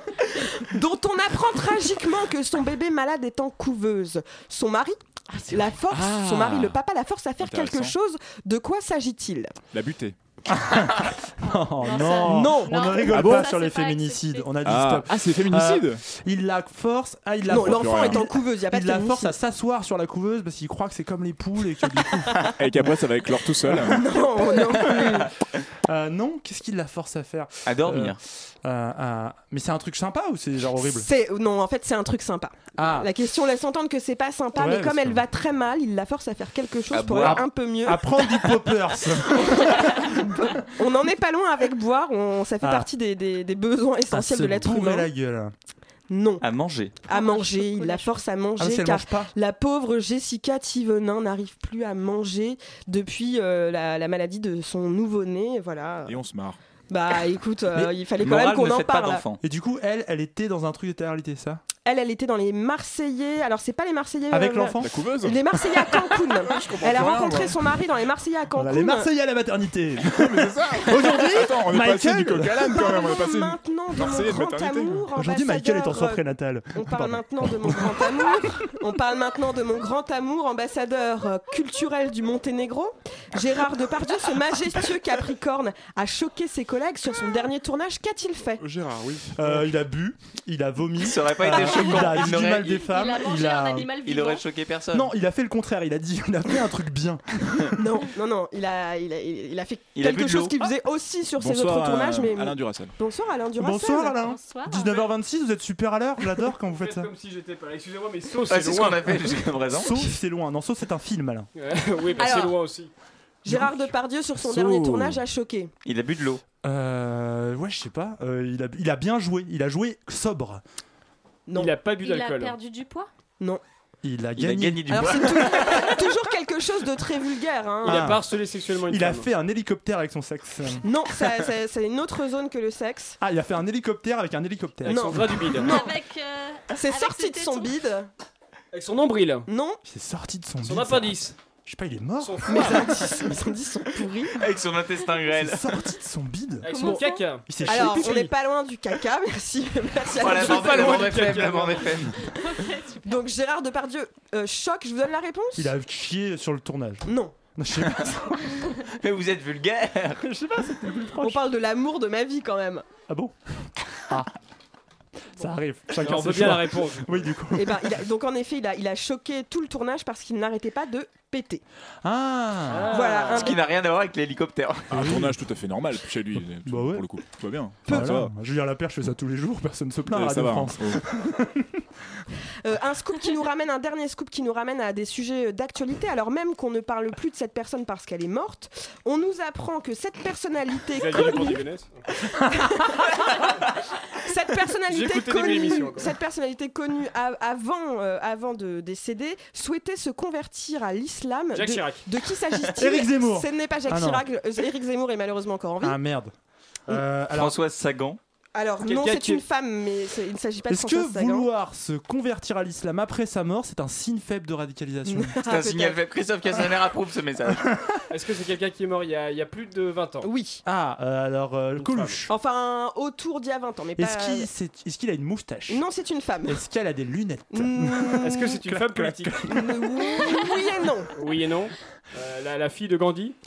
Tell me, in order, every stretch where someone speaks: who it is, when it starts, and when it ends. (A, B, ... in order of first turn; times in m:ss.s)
0:00.3-0:09.5 A
0:05.9-0:06.8 B
0:07.4-0:07.9 B
0:09.7-0:10.1 B
0:10.5-0:23.0 C
0:11.8-0:14.5 D
0:12.2-0:13.0 A
0:13.1-0:13.5 B
0:14.6-0:16.0 B
0:17.5-0:19.4 A
0:17.6-0:18.3 B
0:22.6-0:24.0 B
0:23.6-0:25.2 C
0:23.9-0:25.3 A
0:25.8-0:31.1 C
0:27.6-0:28.2 E
0:30.8-0:38.7 A
0:32.8-0:33.1 C
0:34.6-0:35.2 C
0:36.9-0:37.4 E
0:37.2-0:40.5 C
0:39.3-0:45.1 A
0:42.6-0:42.9 C
0:44.1-0:45.5 C
0:46.1-0:46.4 A
0:46.4-0:47.0 E
0:47.1-0:56.2 A
0:47.1-0:48.2 D
0:48.6-0:49.3 C
0:56.1-0:56.6 B
0:56.9-0:59.2 A
0:58.2-0:59.4 E
0:59.4-1:01.6 C
1:01.8-1:09.1 A
1:04.3-1:05.0 C
1:04.8-1:05.4 B
1:06.4-1:07.6 B
1:08.6-1:12.6 C
1:10.0-1:15.0 B
1:12.7-1:16.2 A
1:15.2-1:18.5 C
1:16.7-1:28.6 A
1:28.8-1:29.3 B
1:28.9-1:33.9 C
1:31.0-1:32.8 E
1:31.8-1:34.4 D
1:34.0-1:35.1 E
1:34.9-1:37.8 C
1:37.8-1:44.2 A
1:40.0-1:40.5 E
1:41.4-1:42.9 B
1:43.6-1:47.1 C
1:44.2-1:45.1 D
1:46.6-1:49.4 F
1:48.4-1:50.1 E
1:49.7-1:51.5 C
1:51.5-1:52.9 F
1:52.2-1:52.6 A
1:53.4-1:55.7 A
1:53.4-1:53.9 C
1:54.5-1:55.1 C
1:55.8-1:56.4 E
1:56.6-2:00.6 C
2:01.5-2:01.8 A
2:01.5-2:02.6 F
2:02.0-2:03.1 D
2:04.0-2:05.7 C
2:04.4-2:06.0 E
2:04.9-2:08.2 A
2:07.8-2:08.2 C
2:07.8-2:09.3 F
2:08.9-2:10.8 C
2:10.8-2:13.2 A
2:13.2-2:15.6 C
2:14.8-2:15.7 F
2:14.8-2:15.9 A
2:15.6-2:17.7 D
2:16.7-2:18.1 A
2:18.7-2:19.5 F
2:19.5-2:19.8 A
2:19.8-2:23.5 C
2:20.6-2:21.4 F
2:22.2-2:22.8 F
2:22.4-2:24.4 A
2:24.4-2:25.6 E
2:25.3-2:26.7 C
2:26.6-2:28.3 F
2:26.7-2:27.3 D
2:27.5-2:28.3 C
2:27.6-2:31.4 A
2:30.2-2:32.3 E
2:30.4-2:32.0 F
2:32.3-2:33.1 D
2:33.0-2:35.7 A
2:35.6-2:38.7 C
2:37.0-2:37.3 A
2:38.8-2:40.2 E
2:40.2-2:41.4 C
2:41.2-2:42.8 A
2:43.1-2:44.3 C
2:45.4-2:48.0 C
2:46.0-2:47.3 F
2:47.5-2:51.6 A
2:52.0-2:52.9 C
2:52.7-2:53.6 F
2:52.9-2:53.6 A
2:53.1-2:55.2 E
2:54.9-2:58.3 B
2:54.9-2:55.4 C
2:56.6-2:57.0 C
2:57.8-3:02.2 C
3:00.1-3:01.0 B
3:02.6-3:11.6 A
3:10.9-3:12.0 F
3:12.4-3:13.2 A
3:14.1-3:26.0 A
3:14.8-3:16.1 F
3:21.5-3:22.0 F
3:22.8-3:24.2 C
3:25.8-3:26.3 C
3:26.9-3:27.6 C
3:27.3-3:28.2 E
3:28.5-3:31.5 A
3:28.8-3:29.4 F
3:30.7-3:35.3 C
3:35.1-3:36.0 A
3:35.4-3:37.7 E
3:37.6-3:38.0 C
3:38.1-3:40.3 F
3:40.2-3:40.6 A
3:40.6-3:42.3 C
3:41.8-3:42.2 F
3:42.3-3:44.5 A
3:44.0-3:45.8 C
3:45.7-3:46.6 A
3:46.4-3:50.0 C
3:47.5-3:48.6 A
3:48.2-3:49.5 F
3:49.4-3:51.1 A
3:51.1-3:53.3 F